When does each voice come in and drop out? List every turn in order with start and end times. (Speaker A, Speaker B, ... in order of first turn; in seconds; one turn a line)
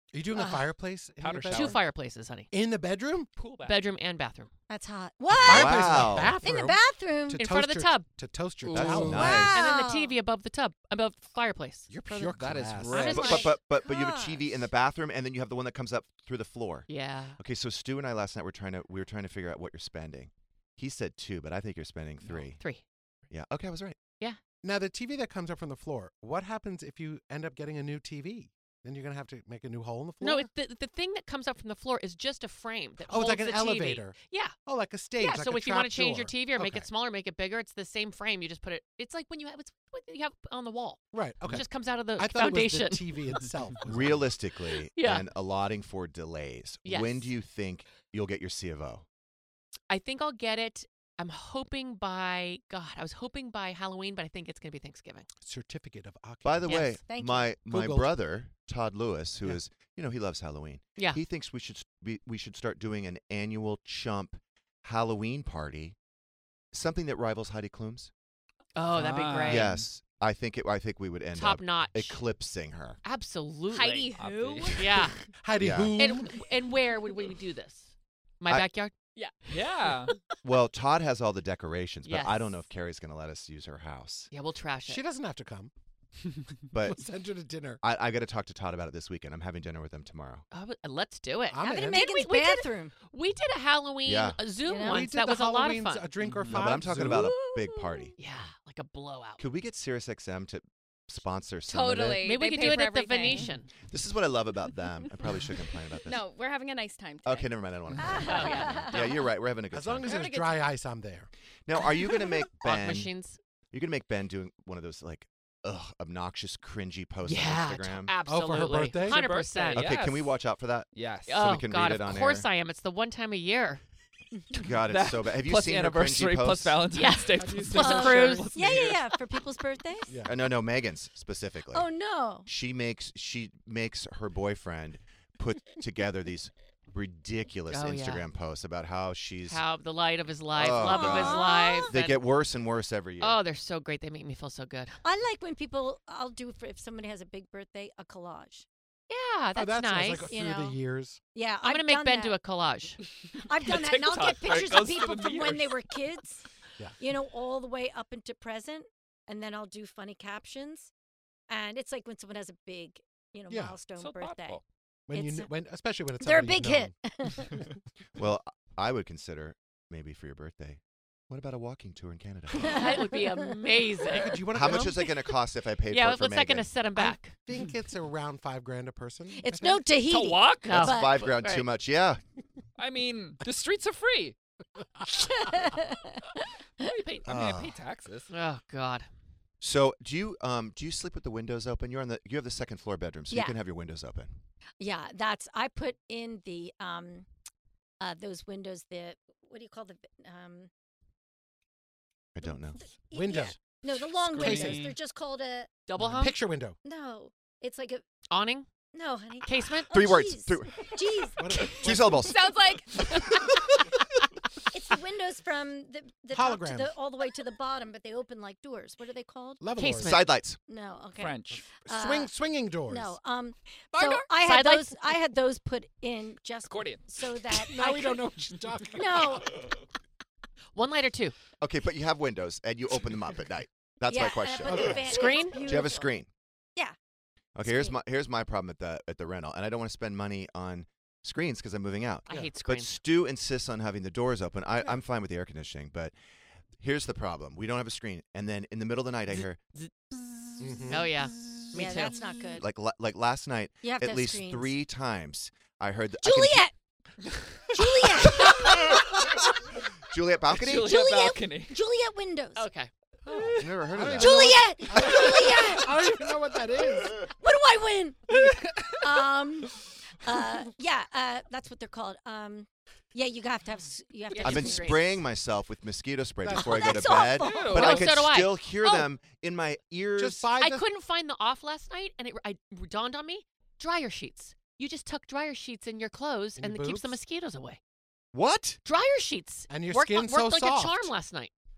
Speaker A: 0.1-1.8
Speaker B: 0.3-0.7
Speaker C: 1.2-1.8
Speaker D: 1.5-2.5
Speaker A: 2.5-3.3
Speaker C: 3.4-3.8
Speaker D: 3.6-4.5
Speaker B: 4.7-7.4
Speaker A: 5.4-9.5
Speaker E: 5.4-6.4
Speaker D: 7.3-8.1
Speaker C: 8.6-9.2
Speaker E: 8.7-9.6
Speaker B: 9.0-10.2
Speaker D: 9.3-11.9
Speaker A: 11.9-13.4
Speaker C: 12.1-13.5
Speaker B: 12.9-14.4
Speaker E: 13.1-22.6
Speaker D: 16.9-17.4
Speaker D: 22.5-22.8
Speaker E: 23.3-24.0
Speaker A: 24.6-30.5
Speaker D: 30.2-34.5
Speaker A: 33.0-36.9
Speaker D: 35.2-43.2
Speaker A: 41.1-44.3
Speaker E: 43.9-49.0
Speaker D: 44.9-45.2
Speaker D: 46.8-47.3
Speaker D: 49.9-55.3
Speaker A: 55.4-56.9
Speaker E: 56.4-66.0
Speaker B: 56.9-57.5
Speaker A: 57.5-58.1
Speaker E: 66.7-68.1
Speaker D: 68.7-69.7
Speaker C: 68.9-69.8
Speaker E: 69.4-73.0
Speaker D: 71.3-72.2
Speaker D: 73.0-74.1
Speaker F: 73.7-75.1
Speaker C: 74.1-75.0
Speaker D: 74.7-75.2
Speaker A: 75.4-76.5
Speaker E: 75.6-76.0
Speaker D: 76.0-78.9
Speaker F: 79.1-80.2
Speaker C: 79.5-80.1
Speaker E: 80.4-84.3
Speaker D: 82.0-82.5
Speaker D: 84.3-85.0
Speaker A: 84.8-85.7
Speaker E: 86.7-87.0
Speaker A: 86.7-87.8
Speaker E: 87.8-90.5
Speaker D: 90.5-96.1
Speaker A: 91.5-92.1
Speaker B: 91.7-92.9
Speaker E: 94.0-94.4
Speaker B: 94.7-95.1
Speaker A: 94.8-97.3
Speaker C: 96.2-96.6
Speaker E: 96.5-98.1
Speaker B: 97.1-98.1
Speaker D: 98.2-99.4
Speaker E: 99.4-102.3
Speaker F: 101.7-103.5
Speaker D: 102.2-103.7
Speaker E: 103.9-106.2
Speaker F: 106.0-107.5
Speaker E: 107.2-110.1
Speaker B: 108.0-108.9
Speaker D: 108.2-109.2
Speaker A: 109.7-111.3
Speaker F: 110.1-110.6
Speaker E: 111.7-113.1
Speaker D: 112.5-113.4
Speaker E: 113.7-118.2
Speaker D: 117.2-119.9
Speaker A: 118.2-119.2
Speaker C: 119.0-120.3
Speaker E: 119.7-122.5
Speaker C: 120.9-121.4
Speaker D: 121.3-123.8
Speaker E: 124.5-126.8
Speaker C: 124.6-129.2
Speaker D: 126.9-128.5
Speaker A: 127.4-128.0
Speaker B: 127.7-130.2
Speaker A: 130.1-130.3
Speaker E: 130.2-131.9
Speaker B: 131.7-132.5
Speaker E: 132.5-139.6
Speaker D: 137.7-138.2
Speaker D: 139.5-142.2
Speaker E: 140.5-143.4
Speaker B: 140.8-141.9
Speaker D: 143.2-145.0
Speaker B: 145.0-148.7
Speaker D: 149.1-150.3
Speaker A: 149.5-151.2
Speaker B: 150.3-150.8
Speaker B: 151.3-152.3
Speaker D: 151.6-153.0
Speaker B: 153.4-156.4
Speaker C: 153.6-155.9
Speaker B: 157.0-160.9
Speaker B: 161.5-164.6
Speaker A: 163.5-163.8
Speaker C: 163.9-164.6
Speaker A: 165.1-167.7
Speaker B: 165.1-165.5
Speaker B: 166.2-167.7
Speaker E: 168.2-172.9
Speaker B: 172.6-173.5
Speaker D: 172.6-174.8
Speaker A: 174.0-175.1
Speaker E: 174.5-176.7
Speaker D: 175.9-177.3
Speaker A: 176.9-179.9
Speaker B: 179.3-181.2
Speaker D: 180.1-181.7
Speaker E: 180.7-182.2
Speaker C: 182.8-184.3
Speaker B: 185.1-186.9
Speaker C: 186.8-188.3
Speaker E: 187.2-187.8
Speaker D: 188.3-189.1
Speaker E: 189.6-194.3
Speaker B: 193.3-193.6
Speaker B: 194.8-197.3
Speaker B: 198.0-200.7
Speaker E: 202.3-202.8
Speaker B: 202.7-205.7
Speaker A: 203.1-203.6
Speaker A: 204.2-204.8
Speaker C: 204.3-204.9
Speaker D: 205.9-206.4
Speaker A: 206.0-206.8
Speaker B: 206.8-208.0
Speaker D: 208.3-208.7
Speaker B: 208.9-211.8
Speaker D: 209.4-210.1
Speaker E: 209.9-210.9
Speaker A: 211.4-212.3
Speaker E: 211.7-212.5
Speaker F: 212.2-213.3
Speaker B: 214.7-219.7
Speaker A: 216.3-217.0
Speaker A: 219.6-220.2
Speaker D: 219.8-220.3
Speaker E: 220.0-220.6
Speaker B: 220.7-222.3
Speaker C: 221.2-221.6
Speaker A: 221.8-223.2
Speaker B: 222.8-228.3
Speaker D: 224.0-225.0
Speaker C: 226.6-227.0
Speaker A: 227.5-229.6
Speaker B: 228.9-229.6
Speaker D: 230.7-231.3
Speaker E: 231.6-236.3
Speaker B: 234.1-236.1
Speaker A: 234.6-235.4
Speaker D: 235.1-235.6
Speaker E: 237.6-246.1
Speaker B: 237.6-237.9
Speaker D: 242.3-242.9
Speaker E: 246.8-249.6
Speaker D: 249.8-252.2
Speaker A: 250.6-251.1
Speaker B: 251.7-252.6
Speaker E: 252.6-256.7
Speaker B: 253.8-254.7
Speaker B: 256.2-256.7
Speaker B: 257.7-259.6
Speaker E: 260.1-261.0
Speaker C: 260.6-261.8
Speaker B: 260.7-262.7
Speaker D: 262.5-262.9
Speaker A: 263.3-267.3
Speaker E: 263.6-264.8
Speaker B: 264.1-275.0
Speaker D: 274.3-275.0
Speaker E: 274.4-280.5
Speaker A: 276.4-277.2
Speaker B: 276.5-278.1
Speaker C: 277.4-278.1
Speaker D: 277.7-279.1
Speaker A: 280.2-280.9
Speaker D: 280.6-287.8
Speaker A: 286.6-287.2
Speaker E: 288.3-288.8
Speaker D: 288.8-291.5
Speaker A: 289.7-291.1